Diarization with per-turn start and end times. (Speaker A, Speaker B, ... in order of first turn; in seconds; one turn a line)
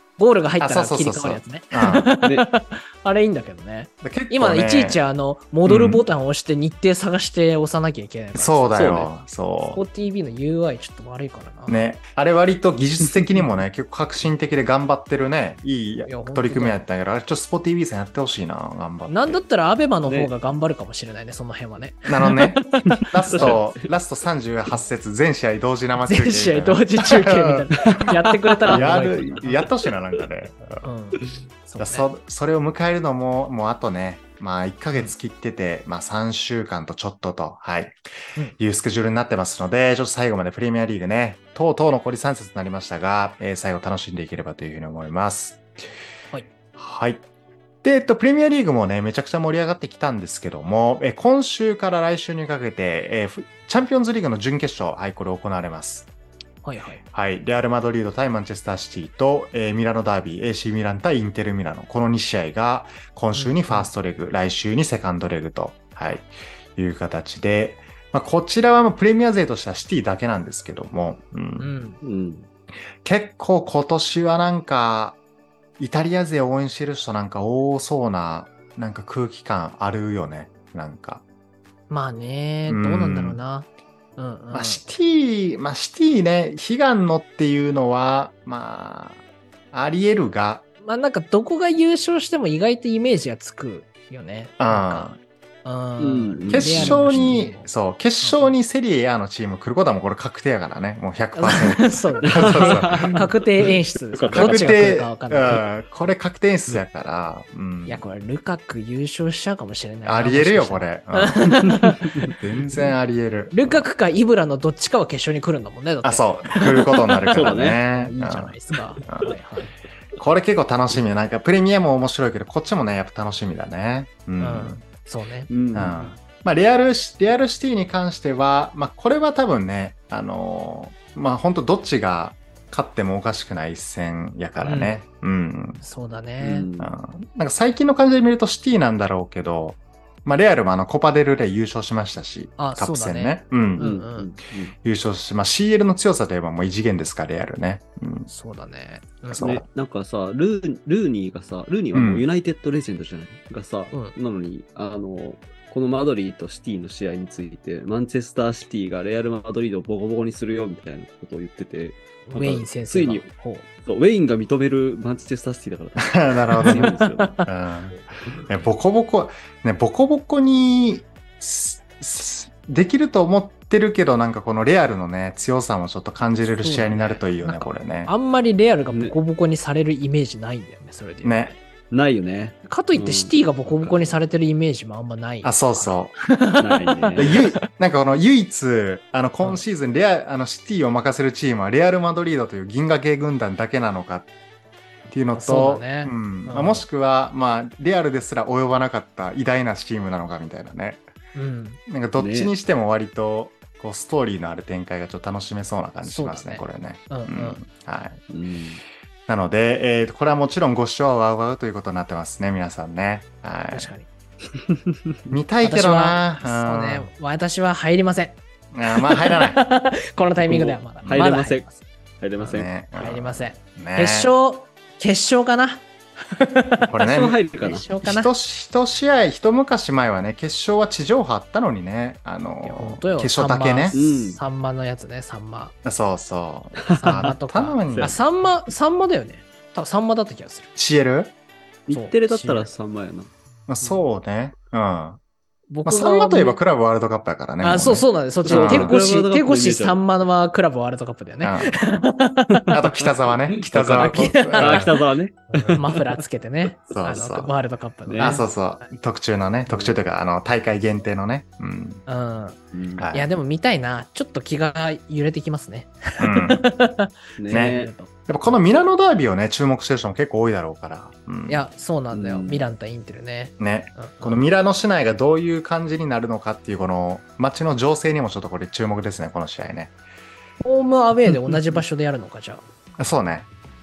Speaker A: 0.2-8.9
Speaker B: 0.6-2.1
Speaker C: 2.2-2.5
Speaker B: 4.0-5.0
Speaker B: 5.7-6.0
Speaker B: 8.3-9.8
Speaker C: 8.8-9.1
Speaker A: 9.7-11.9
Speaker B: 11.7-19.4
Speaker A: 16.1-16.8
Speaker A: 19.1-23.6
Speaker C: 20.1-20.3
Speaker B: 22.1-28.1
Speaker C: 22.9-23.9
Speaker A: 26.0-29.6
Speaker C: 27.9-29.5
Speaker B: 28.7-30.9
Speaker A: 30.8-32.1
Speaker B: 31.8-38.0
Speaker B: 38.6-45.7
Speaker B: 46.8-47.2
Speaker B: 47.8-56.1
Speaker A: 56.6-57.0
Speaker B: 57.1-71.7
Speaker A: 63.3-63.9
Speaker A: 71.6-72.0
Speaker C: 72.0-72.5
Speaker B: 73.0-75.2
Speaker B: 75.8-81.2
Speaker A: 81.9-84.8
Speaker B: 82.7-83.4
Speaker B: 84.5-89.2
Speaker B: 89.7-90.7
Speaker A: 90.8-95.1
Speaker B: 94.6-95.2
Speaker A: 95.7-97.7
Speaker C: 96.0-97.3
Speaker B: 96.5-103.2
Speaker A: 98.2-98.5
Speaker A: 101.3-105.6
Speaker C: 102.2-104.7
Speaker B: 104.3-108.0
Speaker A: 107.9-112.3
Speaker B: 110.0-111.7
Speaker B: 112.3-113.9
Speaker A: 113.5-119.7
Speaker B: 116.0-119.4
Speaker C: 117.3-117.8
Speaker B: 120.2-124.8
Speaker A: 124.4-126.1
Speaker C: 125.5-126.0
Speaker B: 125.7-135.8
Speaker A: 134.6-135.0
Speaker A: 135.8-136.7
Speaker C: 136.4-136.9
Speaker B: 136.8-143.9
Speaker A: 142.6-144.3
Speaker C: 143.8-144.8
Speaker B: 144.8-148.3
Speaker A: 148.3-149.5
Speaker B: 149.3-149.6
Speaker C: 149.4-163.3
Speaker B: 151.9-152.3
Speaker A: 162.3-163.7
Speaker C: 163.8-167.4
Speaker B: 166.0-166.9
Speaker A: 166.6-167.5
Speaker B: 167.4-178.1
Speaker A: 176.5-181.6
Speaker C: 178.9-179.2
Speaker B: 181.2-181.6
Speaker C: 181.9-184.2
Speaker A: 182.7-187.6
Speaker B: 185.4-186.2
Speaker C: 186.6-187.3
Speaker B: 187.2-194.3
Speaker B: 195.1-201.0
Speaker A: 195.3-196.9
Speaker A: 201.3-201.8
Speaker B: 201.9-208.2
Speaker C: 202.2-202.5
Speaker A: 206.0-207.6
Speaker C: 208.3-208.8
Speaker B: 209.3-213.9
Speaker A: 213.7-214.1
Speaker C: 214.5-215.4
Speaker B: 215.3-217.1
Speaker A: 215.6-221.8
Speaker B: 218.7-219.6
Speaker C: 220.5-221.7
Speaker B: 221.0-221.3
Speaker C: 222.2-222.7
Speaker A: 222.4-228.3
Speaker B: 222.4-224.3
Speaker B: 226.9-227.4
Speaker C: 227.0-227.9
Speaker B: 228.0-234.0
Speaker A: 232.6-235.8
Speaker C: 233.9-234.4
Speaker B: 235.8-238.2
Speaker C: 236.8-237.3
Speaker A: 236.9-240.7
Speaker C: 237.9-238.2
Speaker B: 240.8-241.3
Speaker C: 241.9-243.3
Speaker A: 241.9-242.7
Speaker B: 243.7-245.2
Speaker A: 245.7-246.6
Speaker B: 245.8-249.0
Speaker A: 247.6-252.7
Speaker C: 248.4-250.0
Speaker B: 251.4-251.8
Speaker C: 252.5-256.2
Speaker B: 252.7-254.9
Speaker A: 253.9-258.9
Speaker B: 256.9-257.5
Speaker C: 258.1-258.4
Speaker B: 258.2-262.0
Speaker C: 259.7-260.0
Speaker A: 262.1-262.6
Speaker C: 262.7-263.1
Speaker B: 263.0-263.3
Speaker A: 263.1-268.1
Speaker B: 266.2-266.6
Speaker C: 267.4-267.9
Speaker B: 267.5-271.6
Speaker A: 271.5-274.4
Speaker C: 272.1-272.6
Speaker B: 273.6-279.9
Speaker A: 280.6-282.6
Speaker B: 283.0-283.5